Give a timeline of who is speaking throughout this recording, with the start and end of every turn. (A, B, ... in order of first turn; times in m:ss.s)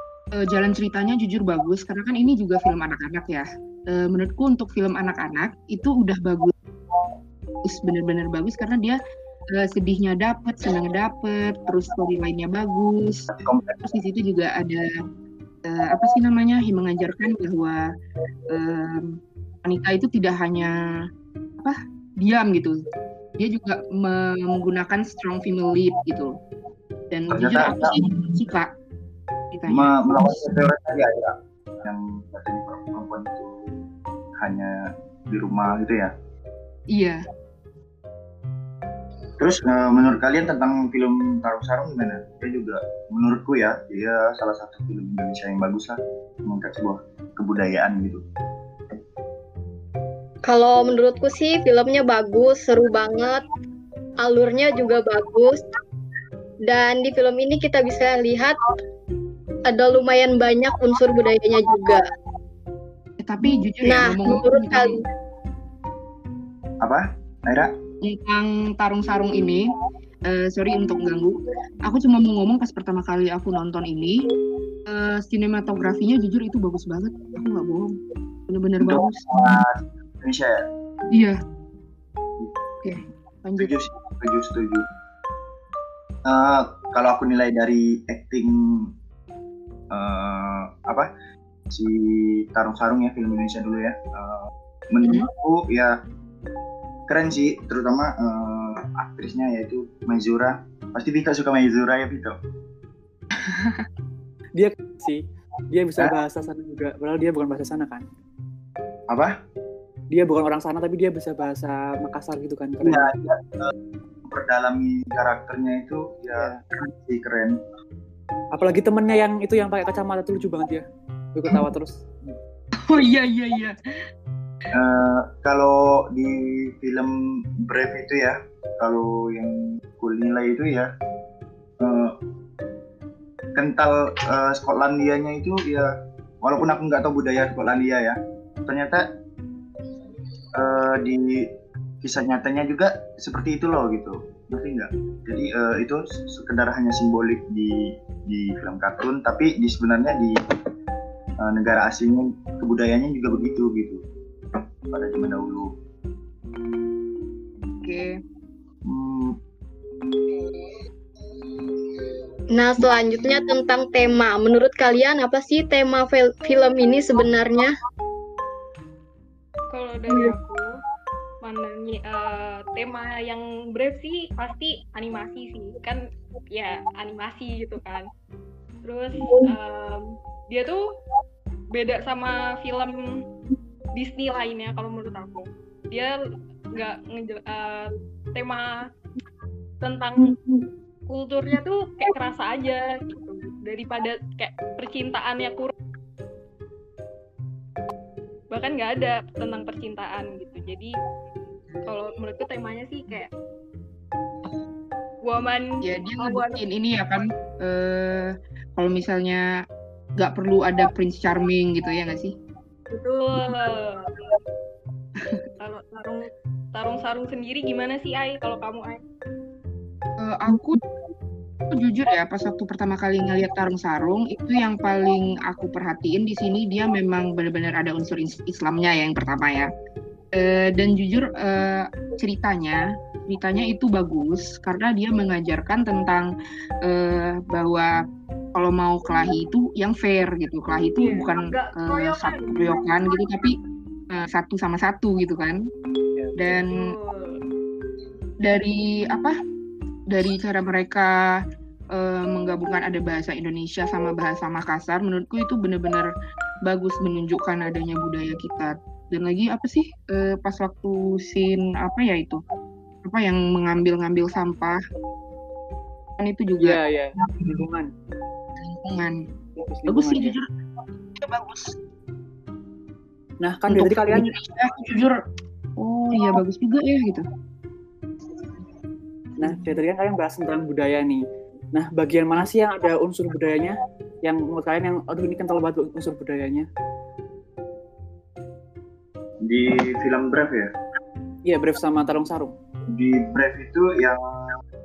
0:00.3-0:06.5 A
0:07.6-0:09.0 A
0:09.5-0:13.3 A
0:13.3-0:13.8 B
0:13.8-0:14.9 A
0:15.6-0:17.8 A
0:18.5-0:20.7 A
0:21.6-0:22.8 A
0:23.4-0:26.3 A
0:27.1-0:28.7 A
0:27.3-0:28.0 B
0:29.5-0:30.0 A
0:29.7-0:33.7 B
0:34.4-0:36.1 B
0:36.9-0:37.2 A
0:39.4-0:48.2 B
0:50.4-0:53.4 C
0:54.2-0:55.6 C
0:56.6-0:58.6 C
0:59.7-1:02.0 C
1:03.2-1:04.9 A
1:03.8-1:05.0 C
1:06.8-1:07.7 B
1:08.0-1:09.7 A
1:10.2-1:14.2 A
1:14.9-1:18.0 A
1:18.5-1:19.4 A
1:18.8-1:20.7 B
1:21.1-1:21.4 A
1:22.8-1:23.8 A
1:23.6-1:24.9 B
1:26.2-1:28.9 B
1:29.9-1:31.1 B
1:31.7-1:36.0 B
1:37.1-1:42.4 B
1:43.4-1:43.8 A
1:44.5-1:48.0 D
1:49.1-1:49.4 B
1:50.1-1:53.1 D
1:52.8-1:53.7 B
1:54.3-1:57.6 B
1:56.3-1:56.6 D
1:58.5-2:02.3 D
2:02.8-2:03.8 A
2:04.7-2:10.9 B
2:11.8-2:12.2 B
2:13.5-2:15.9 B
2:16.4-2:19.1 B
2:20.5-2:21.5 B
2:22.0-2:30.4 B
2:31.4-2:34.0 B
2:34.9-2:35.7 B
2:37.8-2:38.2 A
2:38.8-2:39.4 B
2:42.5-2:47.7 C
2:49.7-2:50.8 E
2:51.4-2:58.1 E
2:58.8-3:00.8 E
3:01.7-3:03.2 E
3:03.9-3:06.1 E
3:06.7-3:08.8 E
3:09.8-3:10.4 E
3:11.1-3:15.7 E
3:18.5-3:21.0 E
3:21.8-3:23.3 E
3:25.2-3:26.6 E
3:25.8-3:29.5 A
3:30.2-3:32.3 A
3:32.9-3:34.1 E
3:35.6-3:39.0 E
3:40.2-3:40.8 A
3:41.7-3:49.7 A
3:50.3-3:56.3 A
3:56.8-3:57.9 A
3:58.5-4:03.5 A
4:01.0-4:03.0 E
4:04.1-4:05.6 A
4:06.4-4:06.9 A
4:06.5-4:07.4 E
4:08.4-4:09.3 A
4:10.1-4:11.4 A
4:11.9-4:16.1 A
4:16.6-4:22.4 A
4:23.0-4:24.8 A
4:26.2-4:26.8 A
4:26.6-4:27.9 D
4:27.3-4:27.6 A
4:28.6-4:29.2 A
4:29.6-4:30.4 D
4:29.9-4:30.4 A
4:31.2-4:31.7 A
4:33.4-4:34.3 D
4:33.7-4:35.1 A
4:35.8-4:37.2 A
4:39.4-4:46.6 D
4:39.4-4:39.7 A
4:49.4-4:50.7 B
4:51.4-4:52.5 D
4:52.9-4:54.5 B